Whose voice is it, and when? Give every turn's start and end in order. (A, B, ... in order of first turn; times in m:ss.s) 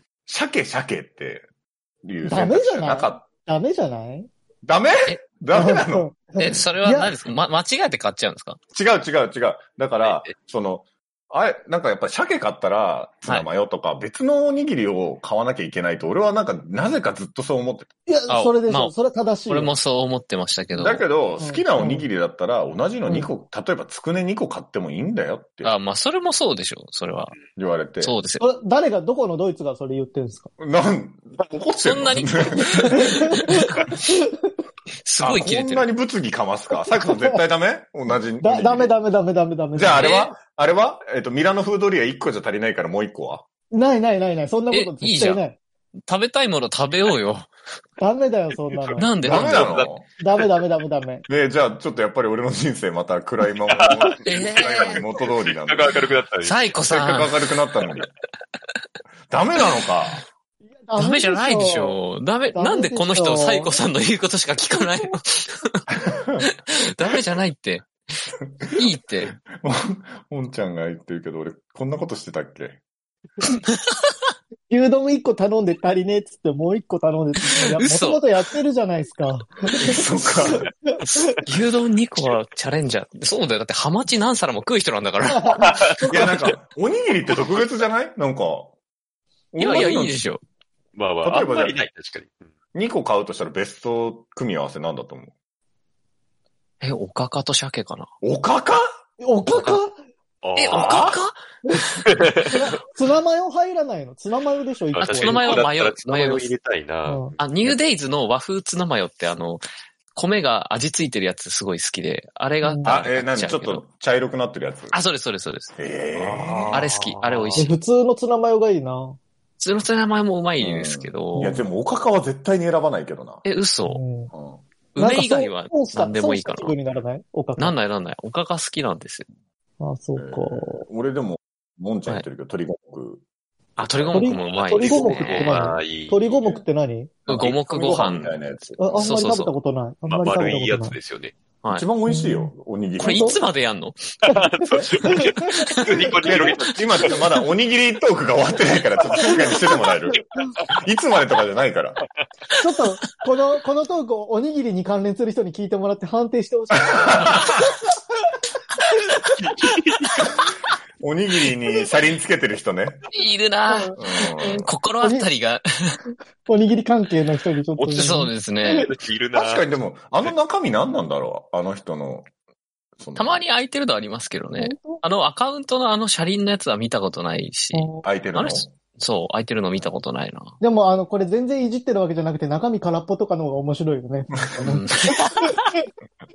0:00.3-0:01.5 A
0:02.0-0:03.3 A
0:02.2-0:04.3 B
0:04.6-0:06.1 A
0:05.5-0:07.2 B
0:06.4-0:08.6 C
0:08.7-0:17.9 A
0:10.0-0:10.3 D
0:18.1-0:19.7 B
0:18.3-0:18.9 C
0:19.5-0:21.0 C
0:20.8-0:25.7 A
0:21.4-0:22.1 B
0:23.0-0:23.3 B
0:25.6-0:27.4 C
0:27.6-0:28.2 A
0:28.0-0:28.4 C
0:28.4-0:30.5 B
0:30.6-0:33.4 A
0:31.8-0:33.9 C
0:32.8-0:34.5 B
0:35.0-0:35.9 C
0:35.2-0:38.9 A
0:36.7-0:37.4 B
0:38.4-0:40.2 B
0:39.7-0:43.4 A
0:39.9-0:40.3 C
0:43.7-0:45.6 B
0:44.7-0:45.4 C
0:46.1-0:47.5 C
0:48.0-0:49.1 B
0:48.7-0:50.5 D
0:49.0-0:49.8 C
0:49.2-0:50.1 A
0:50.2-0:51.3 B
0:51.3-0:56.0 A
0:53.7-0:56.7 D
0:54.2-0:55.0 C
0:56.4-0:57.3 C
0:56.8-0:58.1 A
0:59.3-1:00.2 A
1:00.6-1:02.0 B
1:01.0-1:05.8 C
1:02.5-1:03.8 B
1:06.0-1:06.4 A
1:06.4-1:07.9 C
1:08.5-1:08.9 A
1:08.8-1:09.3 C
1:09.4-1:12.8 A
1:13.4-1:14.3 C
1:14.7-1:21.3 B
1:17.7-1:18.2 C
1:19.8-1:20.6 A
1:21.0-1:26.5 C
1:25.3-1:26.4 B
1:25.6-1:26.0 D
1:26.1-1:28.7 A
1:29.5-1:30.1 A
1:29.6-1:30.4 C
1:30.9-1:32.4 D
1:31.2-1:31.8 A
1:32.7-1:35.3 A
1:36.8-1:38.1 C
1:38.2-1:38.8 A
1:39.2-1:40.0 B
1:39.4-1:39.8 C
1:40.4-1:41.1 D
1:40.6-1:41.4 C
1:40.7-1:41.2 A
1:42.0-1:42.4 D
1:42.4-1:45.7 B
1:44.9-1:47.8 D
1:45.0-1:46.5 C
1:47.0-1:47.4 B
1:47.4-1:53.8 C
1:52.6-1:52.9 B
1:52.8-1:55.0 A
1:54.9-1:57.8 C
1:55.8-1:57.6 A
1:57.5-1:59.2 B
1:59.6-2:01.5 C
2:00.6-2:03.4 A
2:01.4-2:01.6 B
2:03.4-2:04.0 C
2:03.8-2:04.3 B
2:04.3-2:04.6 A
2:04.9-2:06.7 C
2:05.0-2:07.8 B
2:06.6-2:07.0 D
2:07.6-2:09.3 C
2:09.8-2:10.8 B
2:10.2-2:13.2 A
2:13.8-2:15.6 C
2:13.9-2:16.4 D
2:14.1-2:17.3 B
2:17.3-2:18.4 C
2:17.3-2:17.6 D
2:17.6-2:19.1 A
2:18.8-2:21.0 B
2:19.0-2:19.5 C
2:20.1-2:21.3 D
2:21.7-2:23.4 A
2:22.0-2:23.4 B
2:23.0-2:24.2 C
2:24.2-2:27.2 D
2:24.3-2:26.2 B
2:26.2-2:32.0 A
2:29.1-2:29.5 D
2:29.1-2:29.5 B
2:32.6-2:37.6 B
2:37.0-2:37.7 A
2:39.3-2:40.4 D
2:41.0-2:43.0 A
2:43.1-2:46.0 C
2:43.7-2:45.3 B
2:44.0-2:44.7 A
2:46.4-2:48.9 B
2:47.8-2:48.9 C
2:48.7-2:50.3 D
2:49.3-2:52.3 A
2:53.0-2:53.4 A
2:53.2-3:00.5 C
2:54.6-2:55.0 B
2:57.7-2:58.1 B
2:58.0-2:58.7 A
3:00.6-3:05.8 B
3:04.6-3:05.7 C